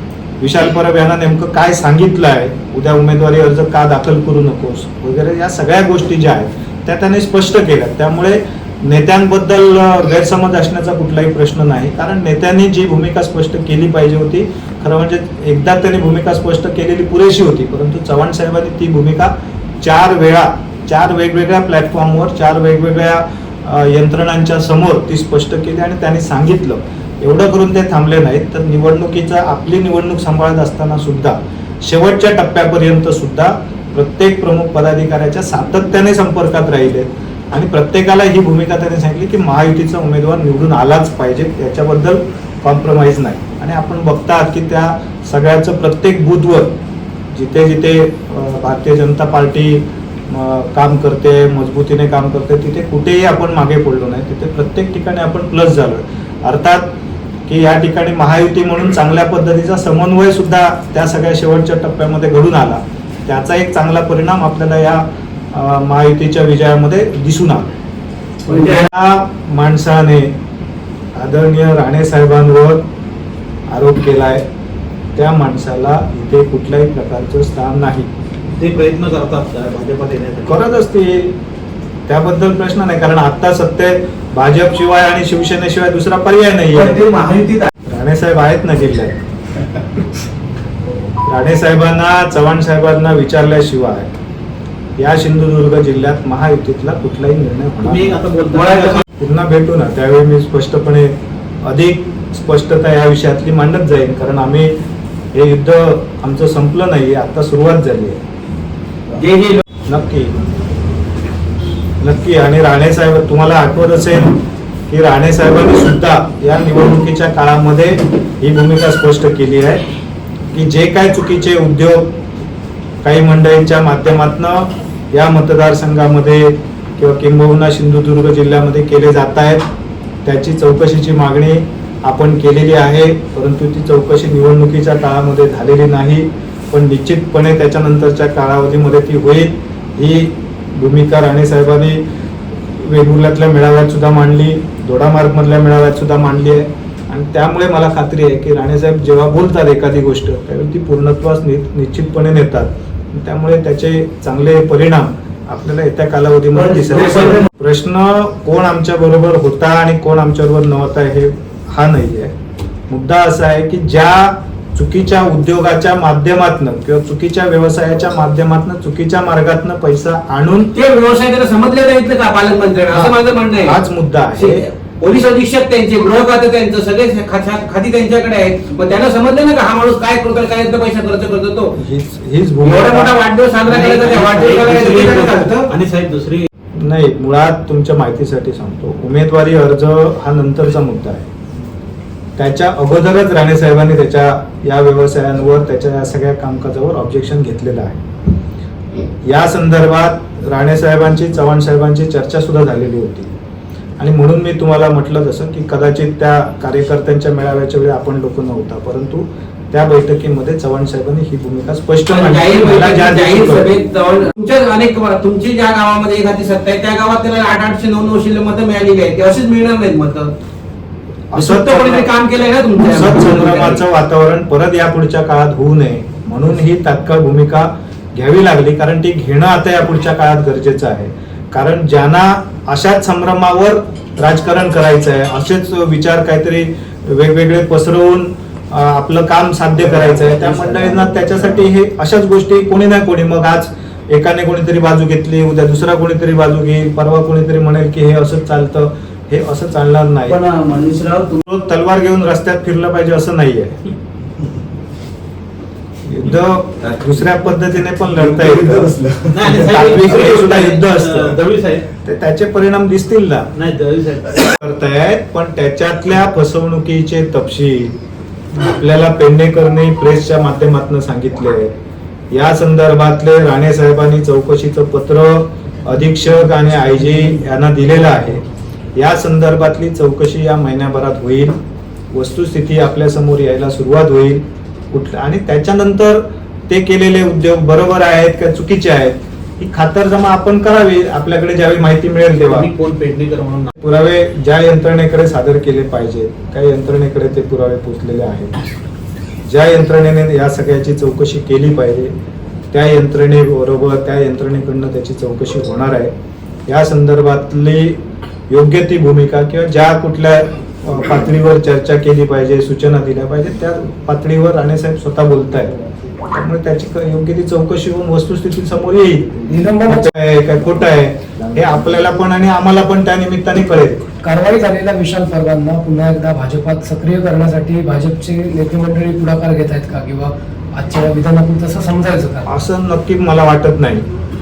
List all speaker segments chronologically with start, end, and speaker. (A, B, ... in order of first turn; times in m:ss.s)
0:00.4-0:46.8 A
0:47.3-0:56.9 A
0:57.5-1:07.7 A
1:08.5-1:10.4 A
1:08.5-1:08.7 B
1:11.1-1:12.8 A
1:13.7-1:14.4 A
1:15.1-1:18.1 A
1:18.6-1:20.4 C
1:19.8-1:20.2 D
1:20.4-1:21.4 A
1:22.1-1:27.1 A
1:26.9-1:27.7 B
1:27.9-1:29.2 A
1:31.2-1:34.1 A
1:35.0-1:38.2 A
1:37.9-1:38.2 C
1:38.2-1:39.0 D
1:38.5-1:39.0 B
1:39.2-1:44.7 A
1:45.3-1:48.2 A
1:49.2-1:49.6 B
1:49.8-1:50.4 A
1:52.0-1:54.4 A
1:54.9-1:59.8 A
2:00.5-2:02.2 A
2:03.0-2:09.6 A
2:10.2-2:22.0 A
2:22.7-2:42.3 A
2:42.9-2:50.7 A
2:50.7-2:53.8 B
2:52.9-2:54.6 A
2:54.3-3:01.7 B
3:01.8-3:03.1 A
3:02.6-3:05.7 B
3:03.7-3:06.5 C
3:06.8-3:11.3 A
3:12.4-3:18.0 A
3:19.2-3:23.3 A
3:24.0-3:33.7 A
3:32.1-3:40.3 B
3:41.3-3:42.1 A
3:41.3-3:43.8 B
3:42.8-4:10.4 A
4:00.0-4:01.0 D
4:10.4-4:11.3 D
4:11.4-4:13.8 A
4:16.0-4:19.0 A
4:18.4-4:20.5 D
4:19.3-4:21.8 C
4:19.5-4:21.4 A
4:22.0-4:23.5 A
4:23.5-4:24.3 C
4:24.6-4:28.0 A
4:28.6-4:31.7 A
4:32.3-4:38.4 A
4:39.0-4:41.6 A
4:42.1-4:52.7 A
4:52.7-4:53.7 C
4:53.8-4:58.5 A
4:59.4-5:02.1 A
5:02.7-5:06.1 A
5:06.7-5:15.7 A
5:16.3-5:24.0 A
5:19.5-5:20.1 E
5:24.2-5:32.5 E
5:32.4-5:34.1 A